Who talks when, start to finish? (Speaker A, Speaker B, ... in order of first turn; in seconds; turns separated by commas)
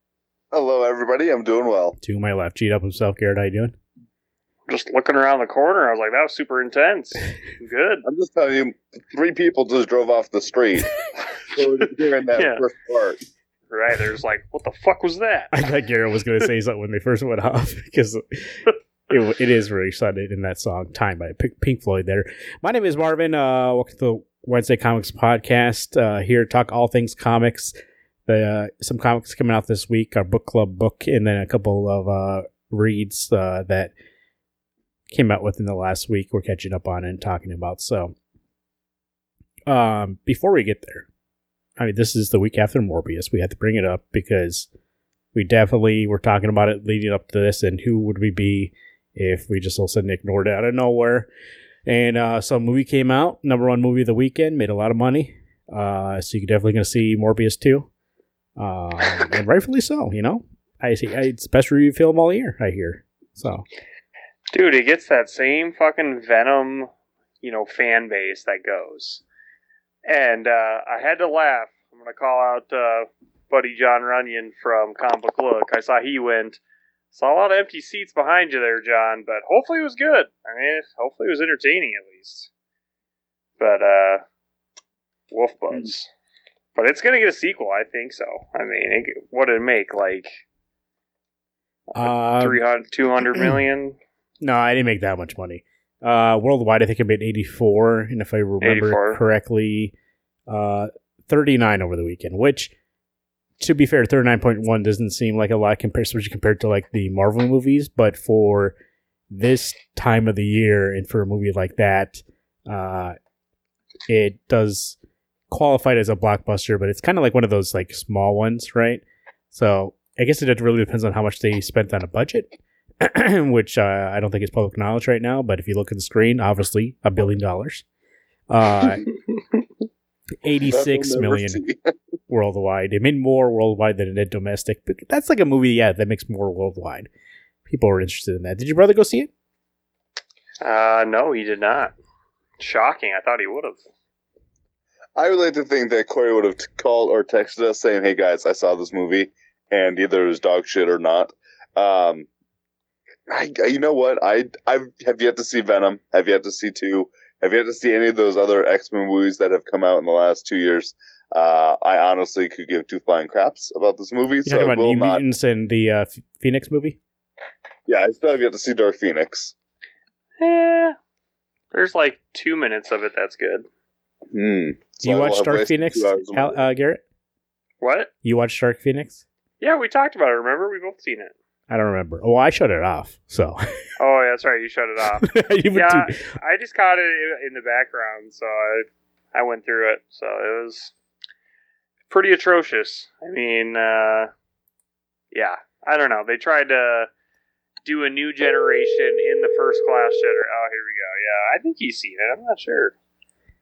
Speaker A: 0.5-2.0, Speaker B: 2.0-3.8, Speaker C: 4.7-8.0, Speaker A: 8.0-13.2, Speaker C: 12.3-12.6, Speaker C: 13.7-15.6, Speaker B: 15.5-27.7, Speaker B: 28.2-33.9, Speaker B: 35.1-38.1, Speaker B: 39.7-41.1, Speaker B: 41.8-44.7, Speaker B: 45.3-51.3, Speaker B: 51.9-57.9, Speaker B: 58.6-63.6, Speaker C: 64.5-66.9, Speaker C: 67.4-69.2, Speaker C: 70.0-76.6, Speaker C: 77.1-82.5, Speaker C: 83.6-84.2, Speaker C: 85.3-86.1, Speaker C: 86.8-90.4, Speaker C: 91.9-94.0, Speaker B: 92.0-92.6, Speaker B: 94.4-99.9, Speaker C: 98.6-99.2, Speaker B: 100.5-102.7, Speaker B: 103.6-108.7, Speaker B: 109.3-113.2, Speaker B: 114.1-115.0, Speaker B: 115.5-127.8, Speaker B: 128.5-129.1, Speaker B: 130.4-131.6, Speaker A: 130.6-131.9, Speaker B: 132.3-137.1, Speaker B: 137.7-139.3, Speaker C: 140.6-141.9, Speaker C: 142.6-143.8, Speaker A: 145.2-152.3, Speaker A: 153.3-165.2, Speaker B: 164.4-167.0, Speaker A: 167.9-169.5, Speaker C: 170.4-170.9, Speaker C: 171.7-173.7, Speaker A: 174.3-176.6, Speaker B: 175.0-177.0, Speaker C: 177.8-178.1, Speaker B: 178.2-179.2, Speaker C: 179.6-181.3, Speaker B: 181.7-183.9, Speaker C: 184.0-190.9, Speaker B: 185.2-186.2, Speaker C: 192.1-194.3, Speaker C: 195.3-197.1, Speaker C: 197.8-202.9